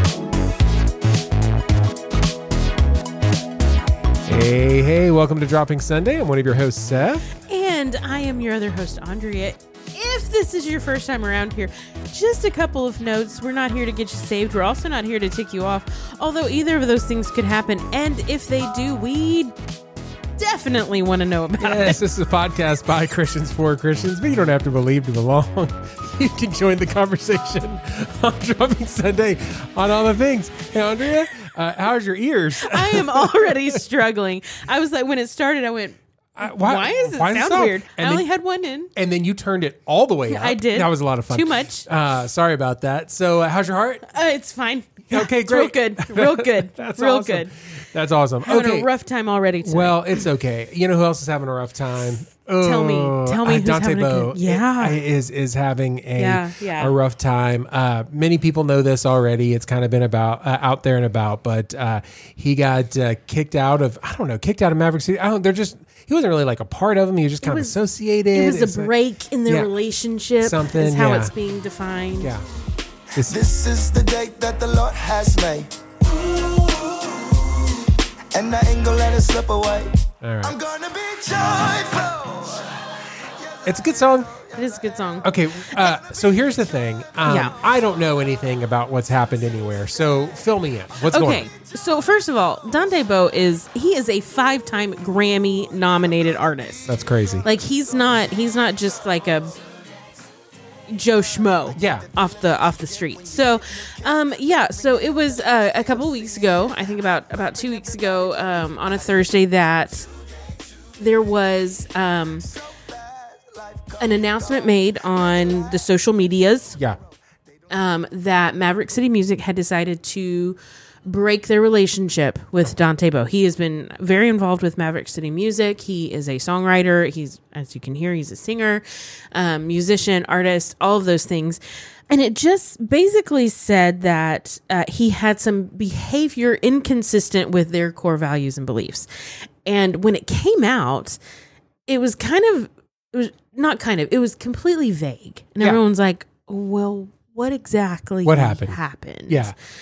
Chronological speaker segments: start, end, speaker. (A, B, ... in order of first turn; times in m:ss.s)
0:04.2-0:07.2 A
0:07.4-0:19.5 B
0:20.4-0:22.0 B
0:21.6-0:33.8 A
0:32.6-0:38.9 B
0:36.4-0:38.2 A
0:38.9-0:44.0 A
0:40.3-0:41.8 B
0:44.1-0:47.5 B
0:45.1-0:48.9 A
0:48.4-0:50.0 B
0:49.6-1:08.9 A
0:52.6-0:55.0 B
0:56.2-0:56.9 B
1:07.4-1:07.8 B
1:08.3-1:12.3 B
1:09.4-1:09.7 A
1:10.4-1:11.3 A
1:12.2-1:12.4 A
1:13.1-1:13.4 A
1:13.2-1:25.2 C
1:20.2-1:20.5 A
1:23.6-1:24.3 A
1:24.5-1:25.7 B
1:25.2-1:31.5 A
1:27.2-1:27.6 B
1:31.1-1:36.9 B
1:36.8-1:37.5 A
1:37.4-1:39.5 B
1:40.9-1:50.1 B
1:41.7-1:42.1 A
1:51.0-1:52.5 B
1:52.5-1:54.9 C
1:54.0-1:56.8 B
1:57.7-2:19.1 B
2:19.6-2:21.2 B
2:21.9-2:29.5 B
2:28.2-2:28.8 A
2:29.3-2:29.6 A